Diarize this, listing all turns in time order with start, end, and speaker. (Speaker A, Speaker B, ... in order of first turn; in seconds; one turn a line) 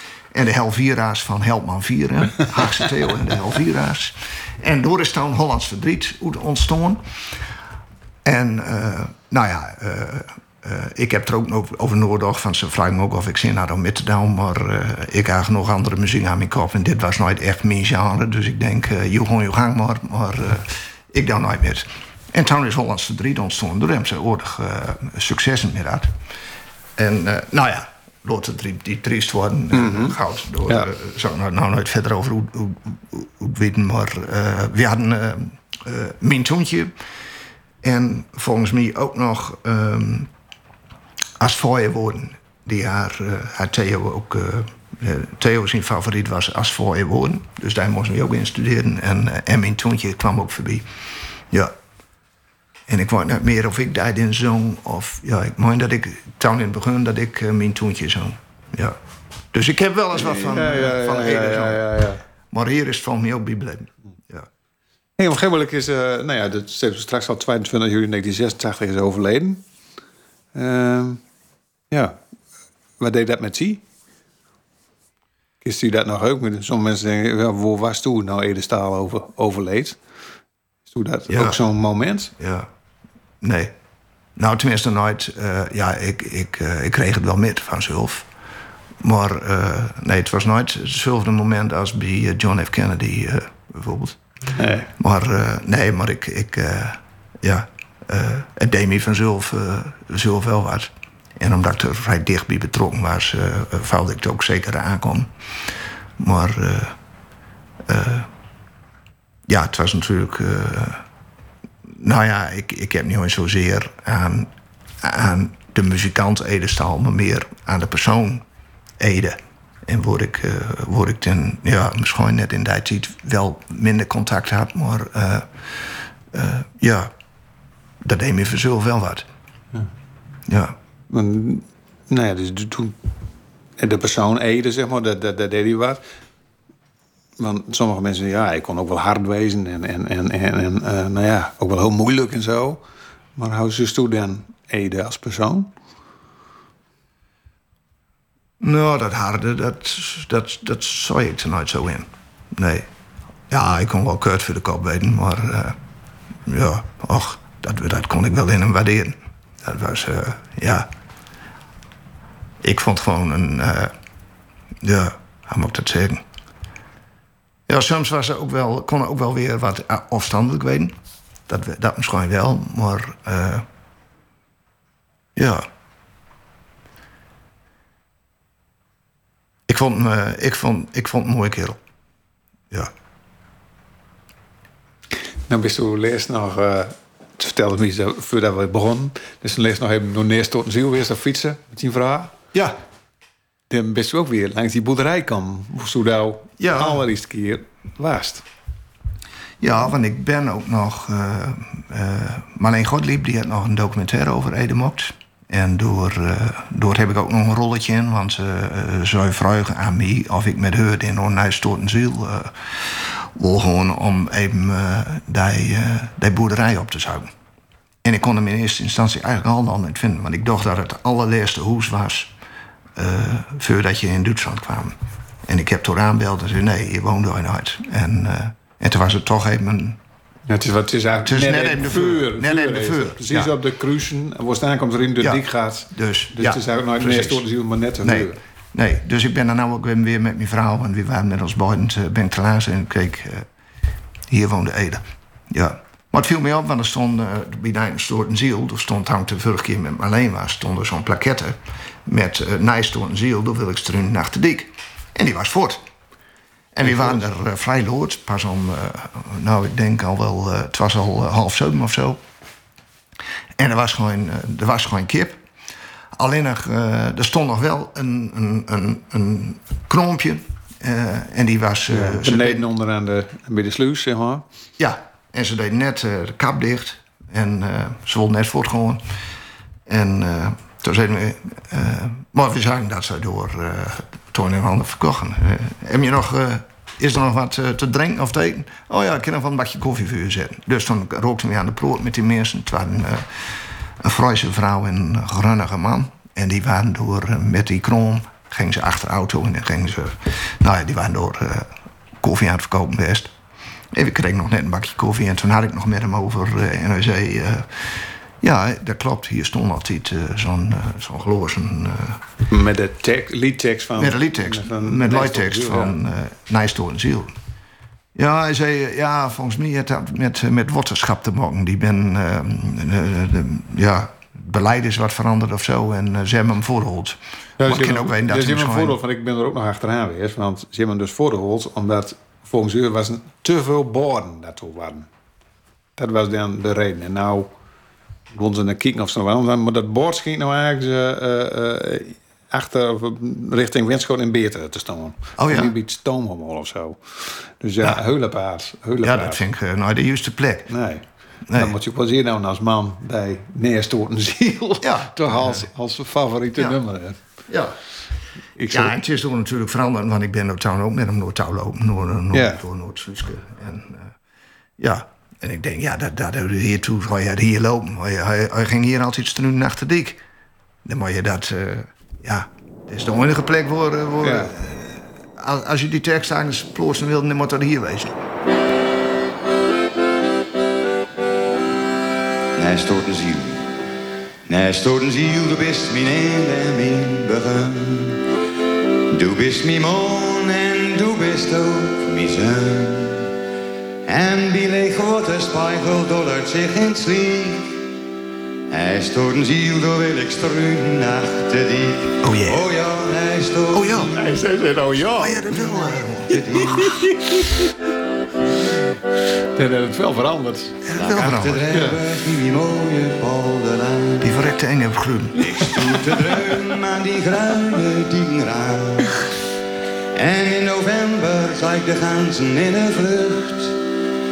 Speaker A: 0.3-7.0
Speaker A: 8.2-26.1
Speaker A: 27.0-36.9
Speaker B: 29.7-30.9
Speaker A: 37.8-40.3
Speaker A: 41.4-50.9
Speaker A: 52.9-59.0
Speaker A: 59.5-61.9
Speaker B: 60.1-62.2
Speaker A: 62.5-64.5
Speaker B: 65.2-69.6
Speaker B: 70.5-71.2
Speaker B: 71.9-72.2
Speaker B: 73.0-73.8
Speaker B: 75.6-80.0
Speaker B: 80.9-82.3
Speaker A: 81.3-81.6
Speaker A: 82.4-82.7
Speaker A: 83.4-83.7
Speaker A: 84.3-88.3
Speaker A: 89.0-94.2
Speaker B: 94.5-94.9
Speaker A: 95.0-105.3
Speaker A: 106.2-107.0
Speaker A: 107.8-108.3
Speaker A: 109.5-111.0
Speaker A: 111.9-118.4
Speaker A: 119.0-127.1
Speaker A: 128.0-129.3
Speaker A: 130.5-130.8
Speaker B: 131.1-132.9
Speaker B: 133.8-136.0
Speaker B: 137.4-142.8
Speaker B: 143.3-145.7
Speaker A: 148.6-152.9
Speaker A: 153.5-155.8
Speaker A: 156.4-160.9
Speaker A: 162.6-163.9
Speaker A: 164.8-166.2
Speaker A: 167.7-170.9
Speaker A: 171.5-173.7
Speaker A: 175.3-175.7
Speaker A: 179.7-181.8
Speaker B: 185.5-192.3
Speaker B: 193.7-198.4
Speaker A: 196.6-197.0
Speaker A: 199.6-217.3
Speaker A: 218.0-222.3
Speaker A: 222.9-230.0
Speaker B: 230.5-238.4
Speaker A: 231.2-233.5
Speaker A: 235.2-237.4
Speaker A: 238.0-243.4
Speaker A: 244.3-255.8
Speaker A: 256.7-262.2
Speaker A: 263.6-265.4
Speaker A: 266.1-272.6
Speaker B: 271.9-274.4
Speaker A: 274.8-279.0
Speaker A: 279.9-303.3
Speaker A: 303.9-312.2
Speaker B: 312.5-316.0
Speaker A: 313.9-317.3
Speaker A: 318.1-329.0
Speaker B: 327.6-335.1
Speaker B: 336.0-337.5
Speaker B: 338.3-349.4
Speaker A: 345.4-345.7
Speaker A: 349.0-350.7
Speaker B: 350.7-357.2
Speaker A: 351.5-351.8
Speaker A: 354.8-355.6
Speaker A: 357.5-357.8
Speaker B: 358.6-358.9
Speaker A: 358.7-364.1
Speaker B: 362.3-362.6
Speaker A: 364.8-370.2
Speaker A: 370.8-378.2
Speaker B: 374.2-374.5
Speaker C: 382.6-383.7
Speaker C: 384.5-388.2
Speaker C: 389.1-393.3
Speaker C: 394.1-397.8
Speaker C: 398.7-404.3
Speaker A: 402.2-402.7
Speaker A: 403.7-404.1
Speaker B: 404.1-405.6
Speaker A: 405.2-407.0
Speaker C: 406.3-407.0
Speaker B: 406.6-407.6
Speaker B: 409.6-410.8
Speaker A: 410.8-411.7
Speaker C: 410.9-414.3
Speaker B: 411.7-412.0
Speaker A: 414.2-415.8
Speaker C: 415.4-419.4
Speaker C: 420.1-423.8